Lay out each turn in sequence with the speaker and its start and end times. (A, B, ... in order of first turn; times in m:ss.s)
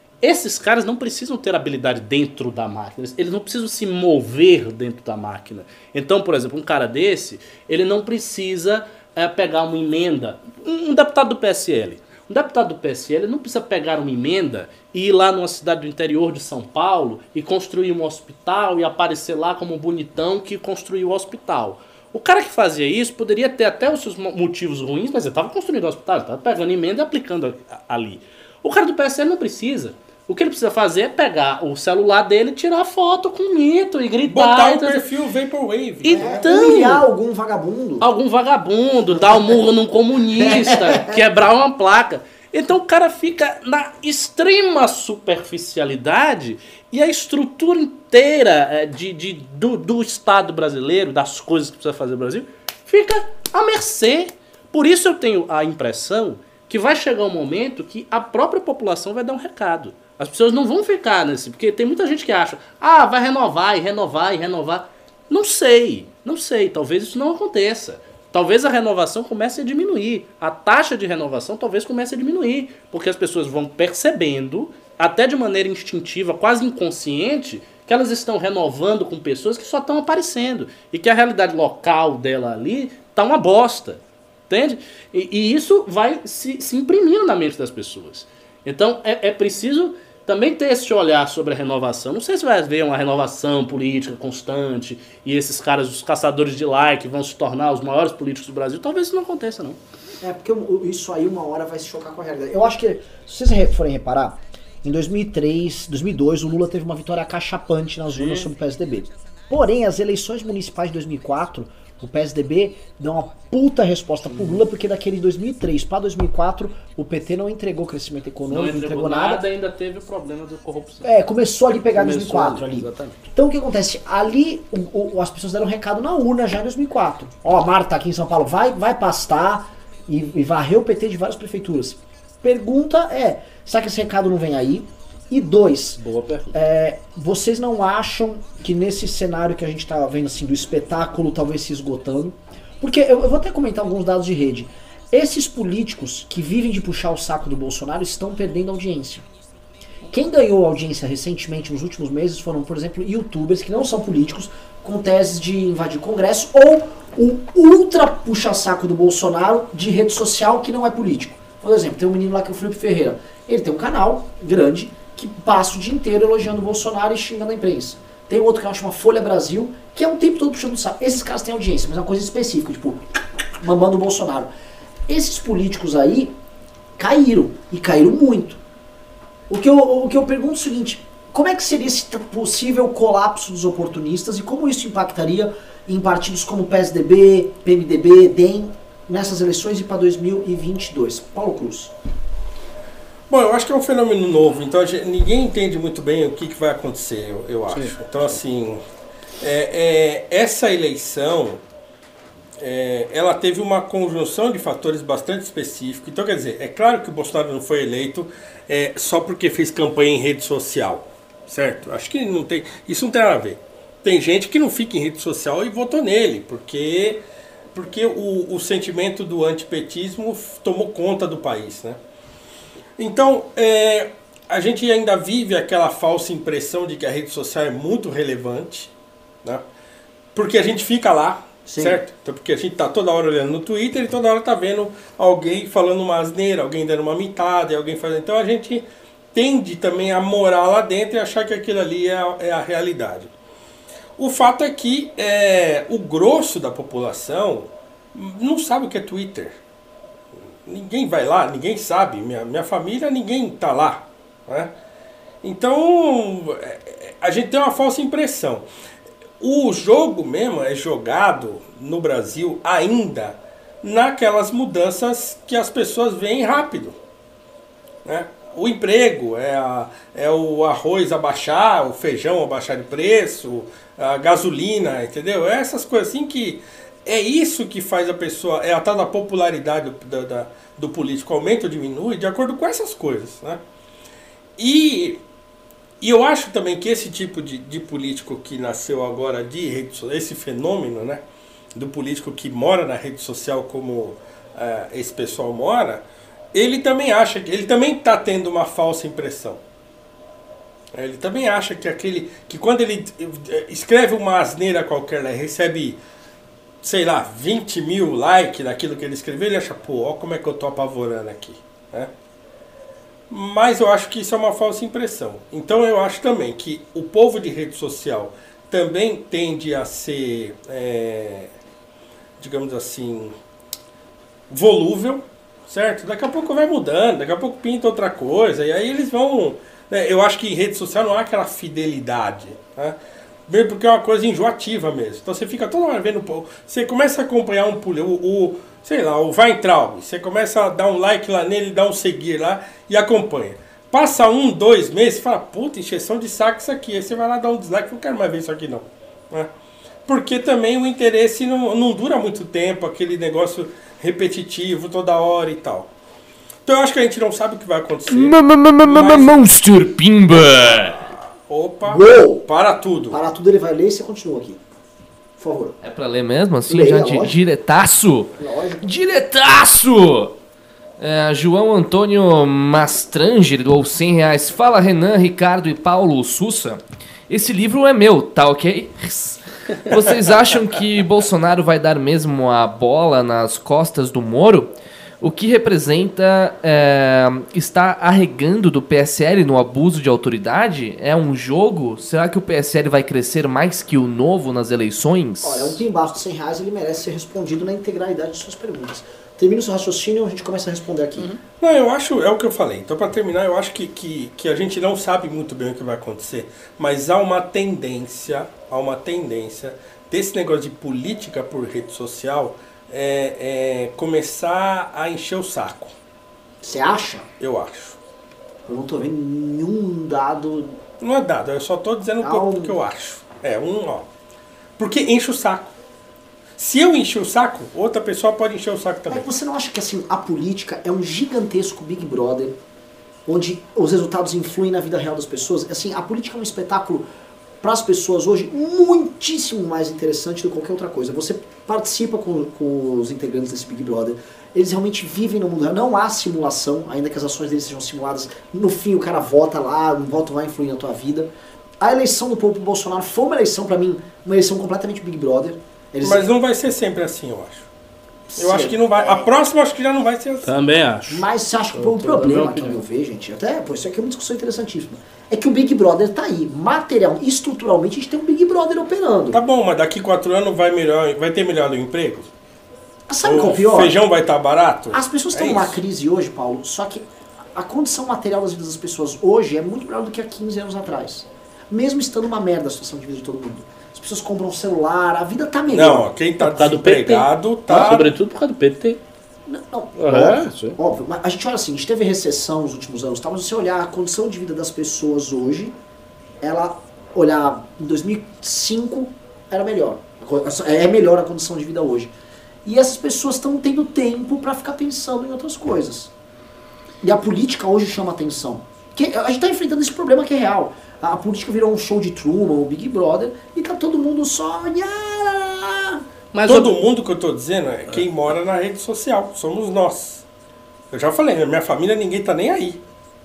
0:00.2-0:35.0 A
0:34.2-0:36.4 B
0:36.0-0:37.0 A
0:36.1-0:38.0 C
0:38.0-1:39.8 A
0:39.2-0:39.5 C
0:40.4-0:41.2 C
1:40.2-1:59.4 C
1:58.5-2:01.1 A
2:01.0-2:29.2 C
2:01.9-2:03.2 A
2:16.0-2:16.5 A
2:30.1-2:53.0 C
2:53.6-2:54.5 C
2:55.1-2:56.3 C
2:57.0-2:58.6 C
2:59.5-3:11.9 C
3:13.3-3:18.8 B
3:19.4-3:21.6 B
3:22.6-3:37.2 B
3:37.7-3:42.0 B
3:43.0-3:48.9 B
3:50.3-4:03.3 B
3:51.6-3:52.0 C
4:04.2-4:09.6 B
4:10.6-4:14.7 B
4:15.4-4:18.6 B
4:19.4-4:27.0 B
4:28.0-4:43.6 B
4:44.6-4:45.2 B
4:46.0-4:51.2 B
4:51.7-4:59.6 B
5:00.9-5:06.0 B
5:06.8-5:12.1 B
5:13.3-5:21.5 B
5:22.4-5:23.3 B
5:24.5-5:49.5 B
5:50.0-5:55.9 B
5:56.6-5:59.5 B
5:58.1-6:01.0 D
6:00.3-6:03.2 B
6:01.8-6:02.5 C
6:03.1-6:04.6 C
6:05.4-6:05.8 C
6:05.8-6:10.3 D
6:06.7-6:07.4 C
6:08.4-6:08.9 C
6:11.0-6:35.8 D
6:35.4-6:41.3 C
6:41.6-6:55.9 B
6:56.6-6:57.3 C
6:57.4-6:58.0 B
6:58.7-7:00.8 C
7:01.0-7:04.1 B
7:02.2-7:02.8 C
7:04.8-7:05.7 B
7:06.6-7:09.2 B
7:09.1-7:12.6 C
7:13.3-7:17.0 C
7:17.6-7:36.2 C
7:36.0-7:37.7 B
7:38.3-7:39.3 C
7:38.4-7:40.5 B
7:40.4-7:42.8 A
7:41.1-7:49.4 C
7:49.3-7:52.3 B
7:53.1-7:53.9 C
7:53.2-7:55.8 B
7:54.9-8:06.1 C
8:05.7-8:08.2 B
8:06.4-8:09.0 A
8:09.5-8:15.8 C
8:10.0-8:10.8 A
8:16.4-8:22.1 C
8:22.6-8:26.1 C
8:27.0-8:36.0 C
8:36.3-8:36.7 A
8:36.4-8:40.2 B
8:40.9-8:42.8 B